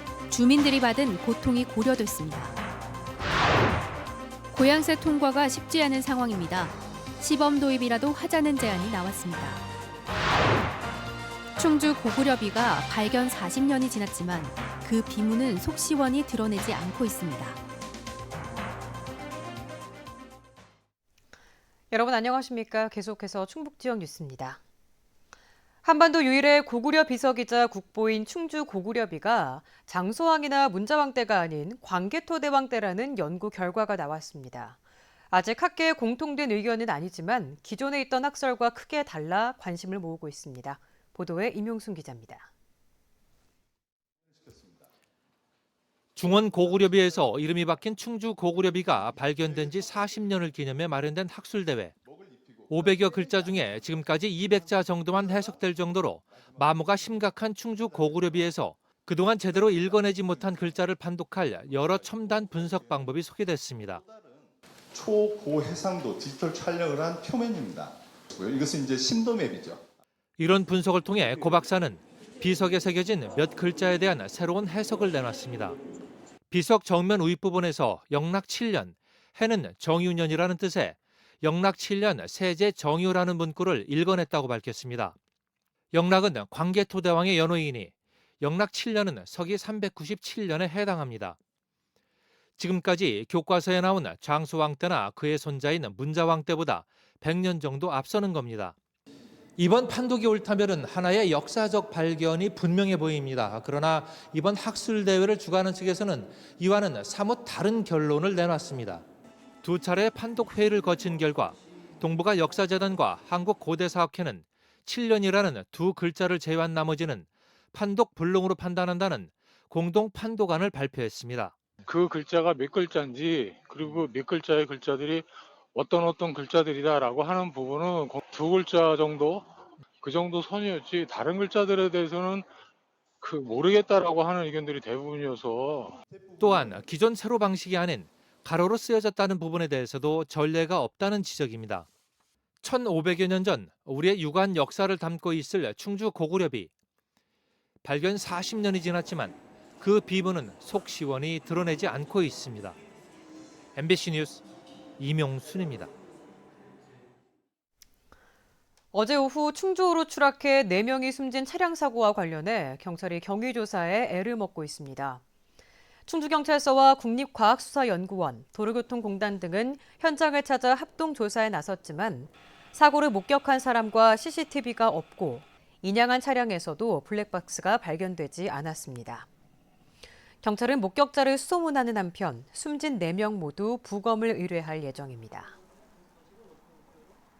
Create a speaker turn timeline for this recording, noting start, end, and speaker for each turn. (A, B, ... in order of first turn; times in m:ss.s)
0:00.3-0:02.6 A
0:04.5-0:09.7 A
0:11.6-0:17.6 A
0:21.9-0:24.6 B
0:25.8-0:34.8 B
0:35.3-0:42.5 B
0:46.2-0:52.0 C
0:52.7-1:04.0 C
1:04.9-1:09.8 D
1:10.4-1:15.8 C
1:16.5-1:25.2 C
1:25.9-1:31.4 C
1:32.6-1:38.8 C
1:39.6-1:49.0 C
1:49.6-2:01.5 C
2:01.9-2:09.5 E
2:10.0-2:12.5 E
2:13.2-2:16.0 E
2:16.4-2:21.9 C
2:22.6-2:26.7 C
2:27.8-2:32.8 C
2:33.8-2:34.4 C
2:35.0-2:35.9 C
2:38.9-2:45.2 B
2:46.1-2:59.3 B
3:00.4-3:05.6 B